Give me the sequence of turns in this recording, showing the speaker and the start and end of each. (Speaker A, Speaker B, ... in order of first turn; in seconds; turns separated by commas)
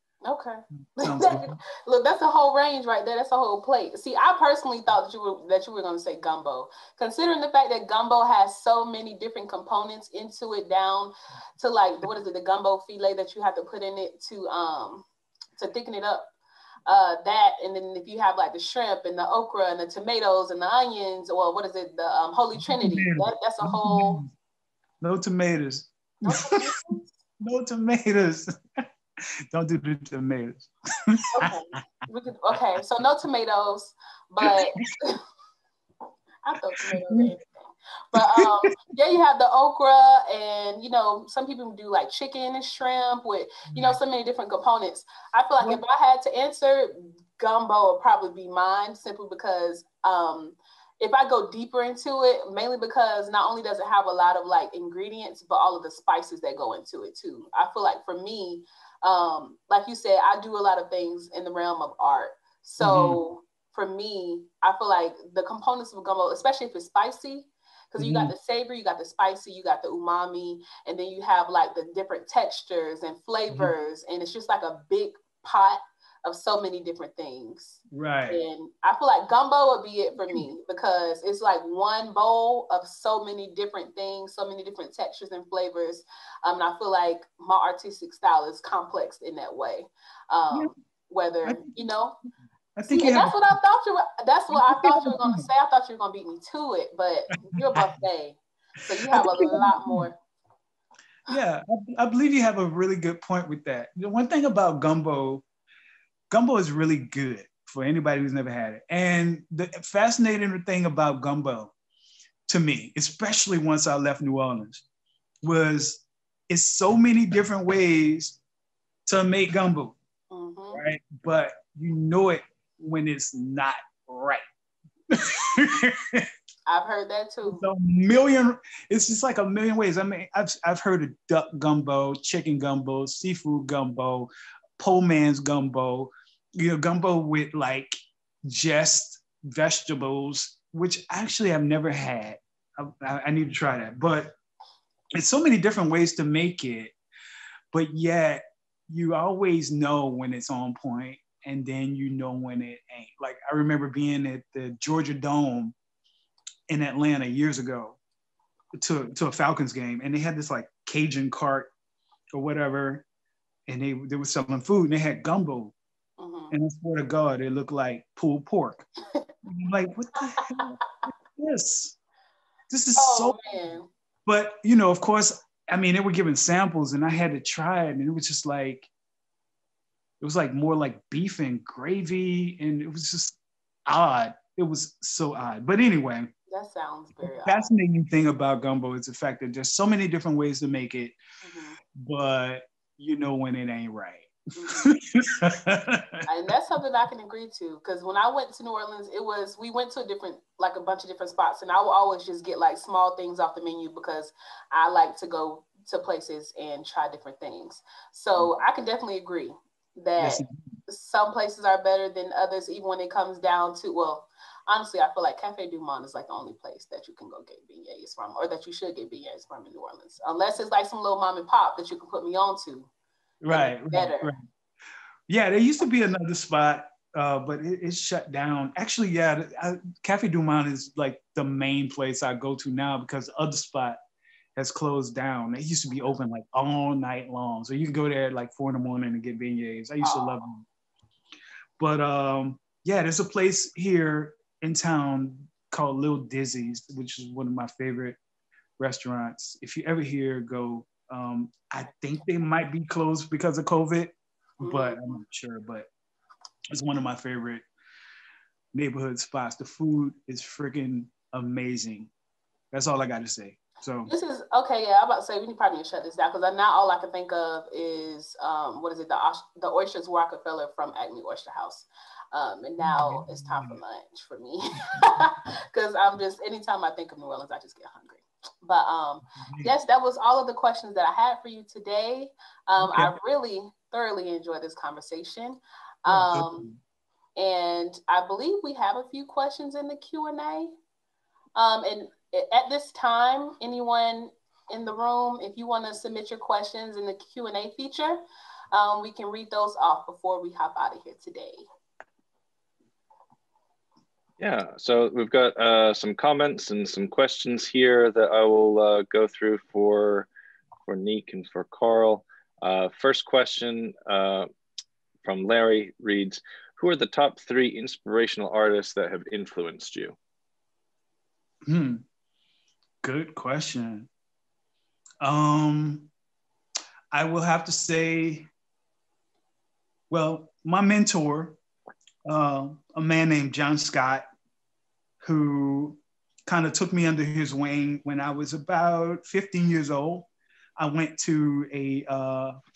Speaker A: 0.2-15.1, Speaker B: 1.0-1.6, Speaker A: 15.6-16.3, Speaker A: 16.9-24.2, Speaker B: 22.6-24.3, Speaker B: 25.0-28.8, Speaker A: 26.2-27.1, Speaker B: 29.5-31.8, Speaker A: 31.3-35.2, Speaker A: 36.4-92.2, Speaker B: 36.8-37.3, Speaker B: 38.1-38.7, Speaker B: 43.7-44.0, Speaker B: 62.8-63.2, Speaker B: 68.0-68.3, Speaker B: 77.9-78.4, Speaker B: 91.4-91.7, Speaker B: 92.8-93.4, Speaker A: 92.9-100.2, Speaker B: 94.5-95.4, Speaker B: 97.5-97.8, Speaker B: 99.1-100.1, Speaker B: 101.3-105.4, Speaker B: 106.3-111.7, Speaker B: 112.5-114.8, Speaker B: 115.4-118.4, Speaker B: 119.0-120.0, Speaker A: 120.3-120.8, Speaker B: 120.7-124.4, Speaker B: 125.1-126.3, Speaker A: 126.7-127.7, Speaker B: 127.4-144.3, Speaker B: 145.2-146.9, Speaker B: 147.7-155.7, Speaker B: 156.7-158.0, Speaker B: 158.8-161.7, Speaker B: 162.3-163.1, Speaker B: 163.7-165.7, Speaker A: 166.2-166.5, Speaker B: 166.5-168.9, Speaker B: 169.4-170.8, Speaker B: 171.3-172.0, Speaker B: 172.7-173.4, Speaker A: 172.9-173.9, Speaker B: 174.2-178.9, Speaker B: 180.2-186.3, Speaker A: 186.5-187.7, Speaker B: 187.2-191.2, Speaker A: 191.4-191.8, Speaker B: 191.9-196.2, Speaker A: 194.6-194.9, Speaker A: 196.2-222.9, Speaker B: 210.2-210.6, Speaker B: 223.4-224.4, Speaker A: 223.5-224.3, Speaker B: 225.3-234.0, Speaker B: 234.6-240.6, Speaker A: 240.0-240.4, Speaker B: 241.8-248.2, Speaker B: 248.8-255.9, Speaker A: 254.6-255.2, Speaker B: 256.7-257.6, Speaker B: 258.7-262.1, Speaker B: 262.7-264.1, Speaker A: 264.1-286.7, Speaker B: 272.8-273.8, Speaker B: 279.4-279.7, Speaker B: 282.8-283.2, Speaker B: 286.1-286.8, Speaker A: 287.4-290.7, Speaker A: 291.5-298.2, Speaker A: 298.7-301.6, Speaker C: 304.4-310.3, Speaker C: 310.9-314.5, Speaker C: 315.2-320.1, Speaker B: 321.6-322.0, Speaker B: 323.0-324.1, Speaker B: 325.2-326.1, Speaker B: 327.1-328.5, Speaker B: 330.1-331.6, Speaker B: 332.2-334.2, Speaker B: 335.2-342.6